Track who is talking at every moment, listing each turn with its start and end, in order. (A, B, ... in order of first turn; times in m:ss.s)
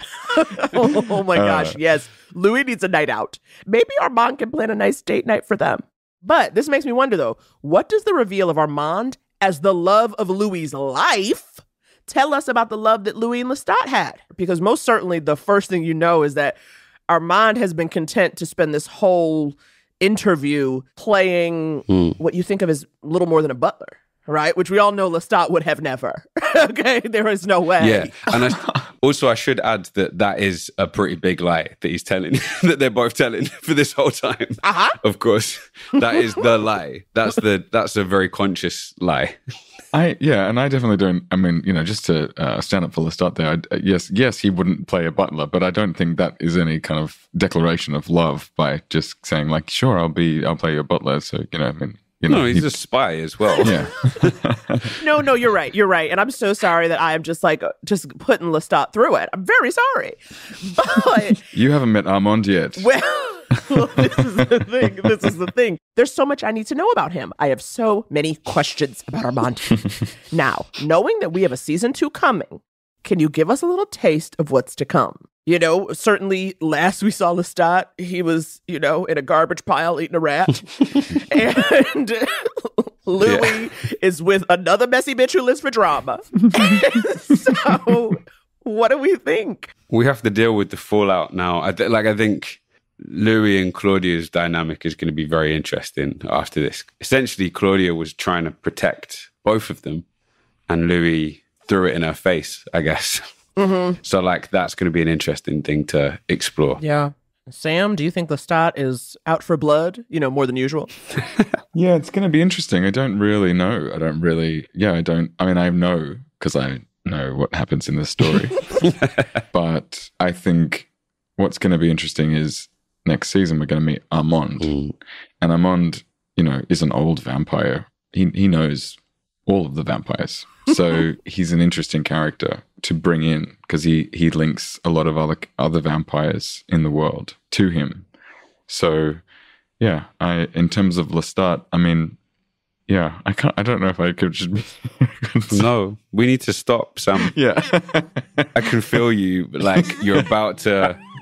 0:00.3-0:16.6 A
0:01.3-0:01.8 B
0:17.1-0:28.1 A
0:21.9-0:22.2 C
0:27.8-0:39.4 C
0:34.6-0:35.0 A
0:39.9-0:52.8 B
0:52.3-0:53.7 C
0:53.6-0:54.9 B
0:55.0-1:01.4 A
1:01.5-1:02.9 B
1:02.8-1:29.7 A
1:03.7-1:04.1 B
1:23.2-1:23.6 C
1:29.9-1:40.0 C
1:40.7-1:43.2 C
1:43.6-1:44.0 A
1:44.0-1:46.8 C
1:46.8-1:50.9 A
1:51.7-1:58.8 B
1:59.5-2:04.8 B
2:04.6-2:04.9 C
2:05.4-2:18.0 B
2:18.7-2:19.2 B
2:19.8-2:22.2 B
2:22.9-2:25.7 B
2:25.5-2:27.3 C
2:27.2-2:28.5 B
2:28.5-2:31.0 C
2:29.7-2:30.3 B